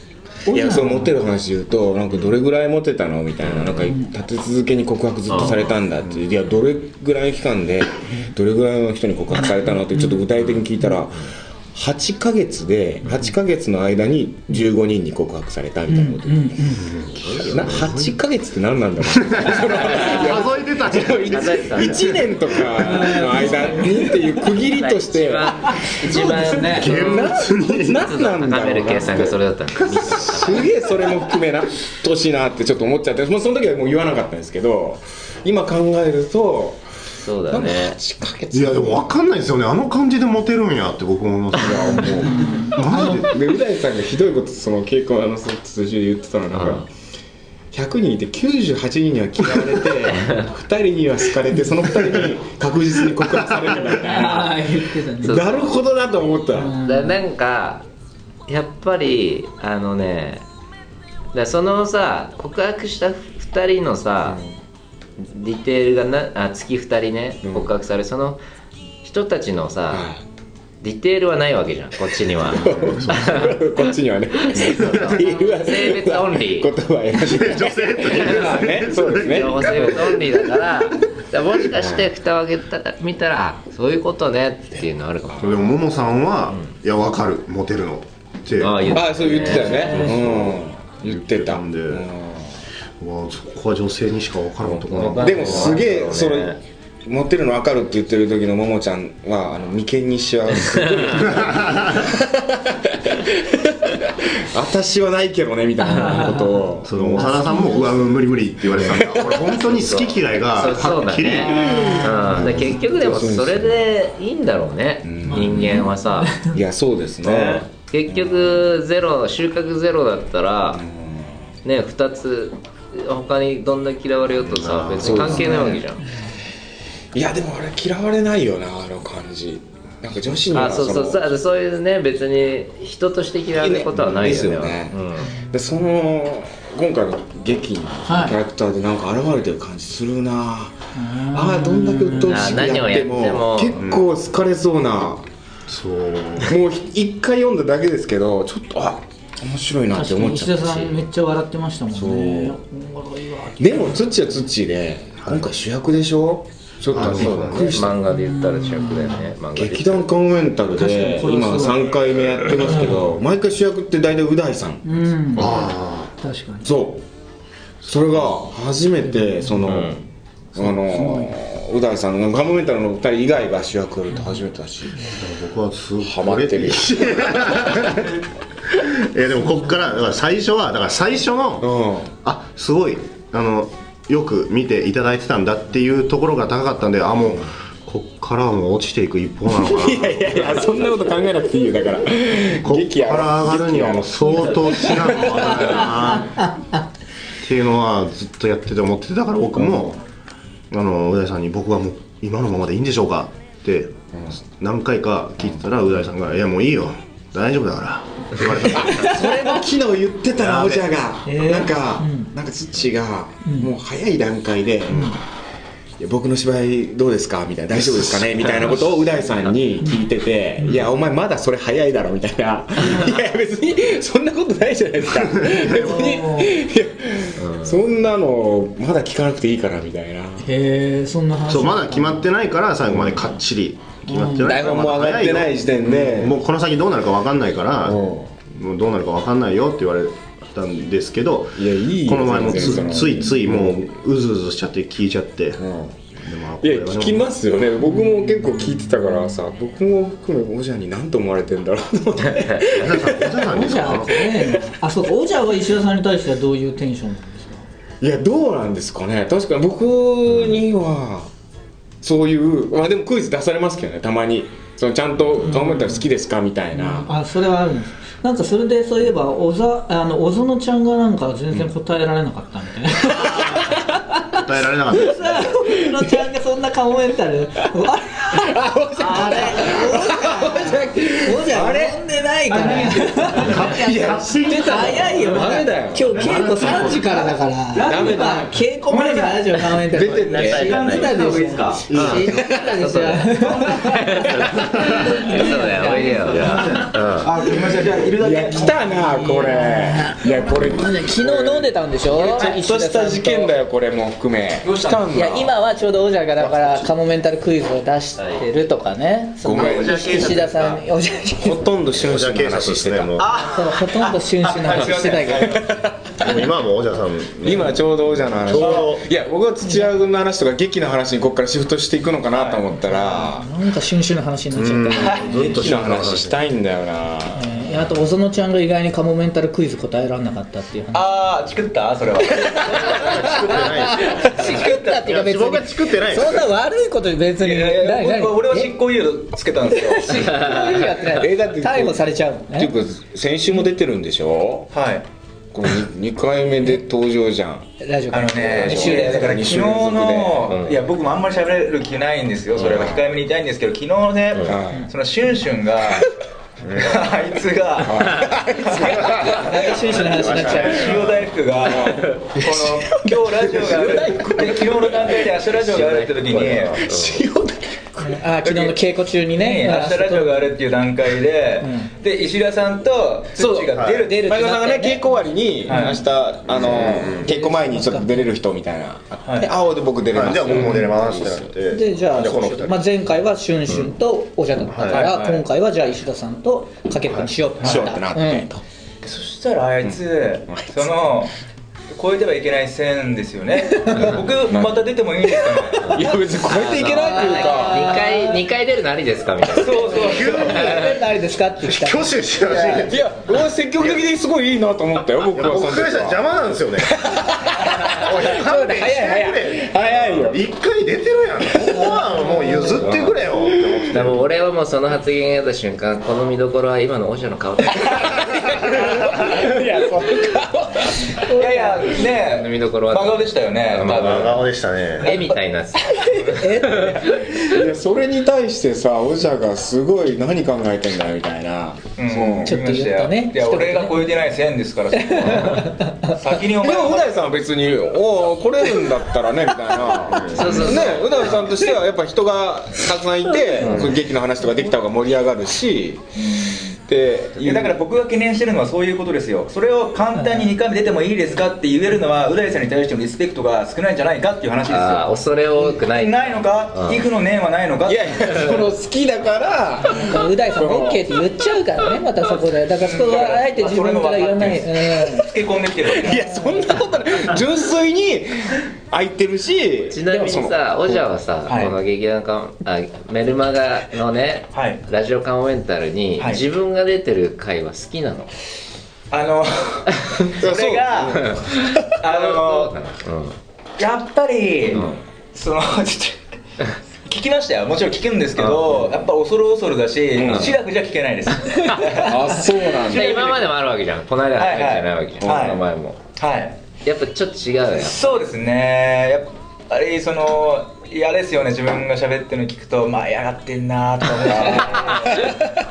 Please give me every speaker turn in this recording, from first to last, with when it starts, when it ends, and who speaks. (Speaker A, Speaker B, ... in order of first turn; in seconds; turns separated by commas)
Speaker A: 0.5-1.1, Speaker B: 0.5-16.8, Speaker C: 3.4-3.9, Speaker C: 5.3-5.8, Speaker A: 9.4-10.2, Speaker A: 15.9-16.9, Speaker D: 16.8-18.1, Speaker C: 17.2-18.1, Speaker B: 17.4-36.9, Speaker D: 19.2-22.7, Speaker C: 19.5-20.4, Speaker C: 21.3-22.2, Speaker A: 22.8-24.4, Speaker C: 24.7-27.4, Speaker A: 25.8-26.8, Speaker D: 26.7-28.0, Speaker C: 27.9-30.8, Speaker C: 37.2-38.0, Speaker B: 37.5-39.1, Speaker D: 38.5-43.4, Speaker B: 41.5-46.9, Speaker A: 42.0-42.8, Speaker C: 46.5-46.9, Speaker B: 47.7-56.8, Speaker C: 50.1-50.5, Speaker A: 54.0-55.4, Speaker C: 55.2-55.8, Speaker A: 56.5-57.2, Speaker C: 56.8-57.9, Speaker C: 58.5-60.4, Speaker C: 61.3-64.4, Speaker C: 65.2-68.4, Speaker B: 67.4-67.7, Speaker C: 69.0-70.1, Speaker B: 69.9-70.2, Speaker C: 70.8-73.6, Speaker B: 72.3-80.9, Speaker D: 72.7-73.4, Speaker C: 74.3-76.7, Speaker D: 74.8-75.2, Speaker D: 77.2-80.1, Speaker C: 78.0-85.8, Speaker B: 81.7-82.1, Speaker D: 85.4-92.1, Speaker C: 88.6-90.1, Speaker B: 88.9-92.6, Speaker D: 93.0-95.8, Speaker C: 94.7-96.6, Speaker B: 94.7-107.5, Speaker C: 100.7-101.2, Speaker D: 101.2-102.2, Speaker A: 105.8-106.6, Speaker D: 106.9-112.5, Speaker A: 107.2-108.0, Speaker B: 108.6-109.6, Speaker C: 109.7-116.4, Speaker B: 111.4-113.8, Speaker A: 111.8-112.1, Speaker B: 115.0-115.9, Speaker A: 115.3-116.6, Speaker B: 116.5-118.6, Speaker C: 117.7-120.8, Speaker B: 120.7-121.4, Speaker C: 121.7-126.0, Speaker D: 124.5-125.5, Speaker B: 124.9-125.8, Speaker A: 125.4-125.8, Speaker B: 127.1-131.3, Speaker C: 130.5-135.3, Speaker B: 133.6-140.8, Speaker A: 138.1-138.4, Speaker A: 140.9-142.5, Speaker B: 141.3-145.3, Speaker C: 142.2-143.8, Speaker D: 143.8-144.1, Speaker D: 145.7-146.5, Speaker B: 146.4-151.0, Speaker A: 149.9-154.1, Speaker B: 151.9-152.6, Speaker B: 153.6-158.0, Speaker D: 156.9-157.9, Speaker C: 157.0-160.2, Speaker A: 158.1-159.2, Speaker B: 159.6-164.8, Speaker A: 160.8-163.0, Speaker A: 164.8-166.7, Speaker D: 165.4-166.1, Speaker B: 166.6-167.0, Speaker B: 167.8-170.0, Speaker A: 169.1-169.6, Speaker C: 169.6-170.1, Speaker B: 170.6-175.1, Speaker A: 170.7-171.3, Speaker D: 175.2-178.2, Speaker B: 176.0-178.0, Speaker D: 178.7-181.7, Speaker B: 181.6-182.1, Speaker D: 182.2-190.8, Speaker B: 189.5-196.1, Speaker D: 192.6-196.5, Speaker A: 195.7-196.8, Speaker D: 197.4-200.0, Speaker B: 199.5-200.0, Speaker D: 200.7-209.2, Speaker B: 208.6-215.2, Speaker A: 208.9-209.5, Speaker D: 210.3-211.0, Speaker A: 211.3-212.3, Speaker A: 213.4-213.7, Speaker B: 216.0-230.5, Speaker D: 225.1-226.0, Speaker A: 225.6-226.6, Speaker C: 227.4-227.8, Speaker A: 230.4-232.3, Speaker D: 231.5-245.6, Speaker B: 232.9-233.3, Speaker A: 234.1-234.6, Speaker B: 234.4-236.4, Speaker B: 237.8-238.3, Speaker B: 241.5-243.8, Speaker B: 245.6-254.4, Speaker D: 246.2-247.3, Speaker A: 247.9-248.5, Speaker C: 252.3-252.8, Speaker D: 252.7-254.3, Speaker A: 253.5-257.6, Speaker B: 258.0-261.3, Speaker B: 262.0-267.1, Speaker A: 265.4-266.1, Speaker A: 266.7-296.8, Speaker B: 273.1-273.8, Speaker D: 274.3-275.5, Speaker B: 278.3-282.0, Speaker E: 282.5-283.5, Speaker D: 283.4-285.4, Speaker B: 283.5-287.1, Speaker D: 286.2-287.0, Speaker E: 287.7-291.9, Speaker B: 287.8-288.5, Speaker B: 289.9-290.8, Speaker C: 290.2-291.1, Speaker D: 291.9-292.3, Speaker C: 291.9-297.3, Speaker E: 295.8-299.3, Speaker B: 298.2-305.5, Speaker A: 299.1-303.5, Speaker E: 304.6-305.1, Speaker A: 305.1-311.6, Speaker B: 306.4-306.8, Speaker B: 309.4-310.3, Speaker E: 309.6-310.7, Speaker B: 311.4-313.3, Speaker D: 311.9-313.3, Speaker E: 313.2-315.8, Speaker A: 313.4-315.6, Speaker B: 315.4-316.4, Speaker D: 316.2-319.1, Speaker B: 317.4-323.5, Speaker E: 318.6-318.9, Speaker A: 319.6-319.9, Speaker E: 322.3-322.7, Speaker A: 322.8-325.6, Speaker D: 324.5-326.4, Speaker E: 325.0-325.5, Speaker B: 325.4-327.7, Speaker A: 327.4-331.1, Speaker E: 330.9-335.2, Speaker A: 332.4-338.7, Speaker D: 332.7-336.5, Speaker E: 337.4-340.5, Speaker A: 339.7-342.7, Speaker C: 340.1-341.1, Speaker B: 341.1-344.7, Speaker E: 344.7-345.1, Speaker B: 345.5-347.7, Speaker A: 347.8-349.5, Speaker E: 348.1-356.1, Speaker B: 348.4-350.5, Speaker C: 350.5-350.8, Speaker B: 352.6-353.1, Speaker C: 354.3-354.6, Speaker B: 354.4-354.9, Speaker D: 356.7-357.0, Speaker E: 356.8-366.8, Speaker B: 357.8-365.1, Speaker C: 358.0-358.4, Speaker A: 359.4-360.9, Speaker D: 360.0-361.3, Speaker C: 365.1-367.2, Speaker B: 366.8-368.2, Speaker A: 368.0-370.6, Speaker E: 368.4-368.8, Speaker E: 369.3-374.4, Speaker A: 371.6-371.9, Speaker B: 373.4-381.6, Speaker D: 373.8-374.0, Speaker A: 374.0-375.0, Speaker E: 375.7-376.0, Speaker A: 375.7-376.0, Speaker D: 376.5-377.3, Speaker A: 377.0-378.3, Speaker E: 379.2-379.5, Speaker D: 380.1-382.9, Speaker A: 381.7-388.5, Speaker D: 384.7-385.1, Speaker E: 384.9-385.4, Speaker E: 387.6-387.9, Speaker B: 387.6-388.6, Speaker E: 389.0-391.3, Speaker B: 389.8-391.1, Speaker E: 391.9-395.9, Speaker A: 393.8-394.1, Speaker B: 394.5-394.8, Speaker C: 395.9-401.0, Speaker B: 395.9-398.0, Speaker A: 396.8-398.4, Speaker E: 399.6-400.6, Speaker D: 400.0-400.9, Speaker A: 400.1-402.9, Speaker D: 401.6-403.0, Speaker B: 402.8-406.2, Speaker D: 405.3-407.0, Speaker B: 406.8-410.5, Speaker D: 407.6-414.2, Speaker B: 411.6-414.0, Speaker A: 412.1-412.8, Speaker C: 412.8-413.2, Speaker C: 413.9-419.4, Speaker B: 417.8-421.2, Speaker A: 421.3-422.0, Speaker E: 421.3-424.4, Speaker C: 421.9-427.4, Speaker D: 423.9-425.1, Speaker A: 426.0-427.3, Speaker B: 427.4-432.6, Speaker E: 432.0-437.4, Speaker A: 432.4-434.2, Speaker A: 434.9-436.2, Speaker B: 436.6-446.0, Speaker C: 440.3-441.3, Speaker C: 443.6-443.9, Speaker E: 446.1-446.8, Speaker B: 446.9-447.8, Speaker E: 447.4-458.6, Speaker C: 454.7-457.1, Speaker B: 457.9-461.2, Speaker C: 458.3-458.6, Speaker A: 459.9-465.3, Speaker E: 462.2-466.3, Speaker B: 466.0-471.0, Speaker A: 466.2-466.7, Speaker C: 469.9-478.3, Speaker E: 471.5-471.8, Speaker E: 474.5-474.8, Speaker E: 476.2-476.4, Speaker E: 479.1-481.2, Speaker B: 480.4-481.8, Speaker C: 481.1-483.4, Speaker E: 482.0-482.8, Speaker E: 483.8-486.2, Speaker C: 484.7-485.0, Speaker E: 487.1-493.5, Speaker C: 488.4-488.9, Speaker B: 490.1-490.5, Speaker C: 490.2-490.6, Speaker C: 491.7-492.1, Speaker B: 492.0-493.2, Speaker C: 492.8-496.0, Speaker E: 494.4-495.6, Speaker E: 496.2-496.6, Speaker C: 496.9-498.1, Speaker E: 497.8-505.4, Speaker B: 504.2-504.7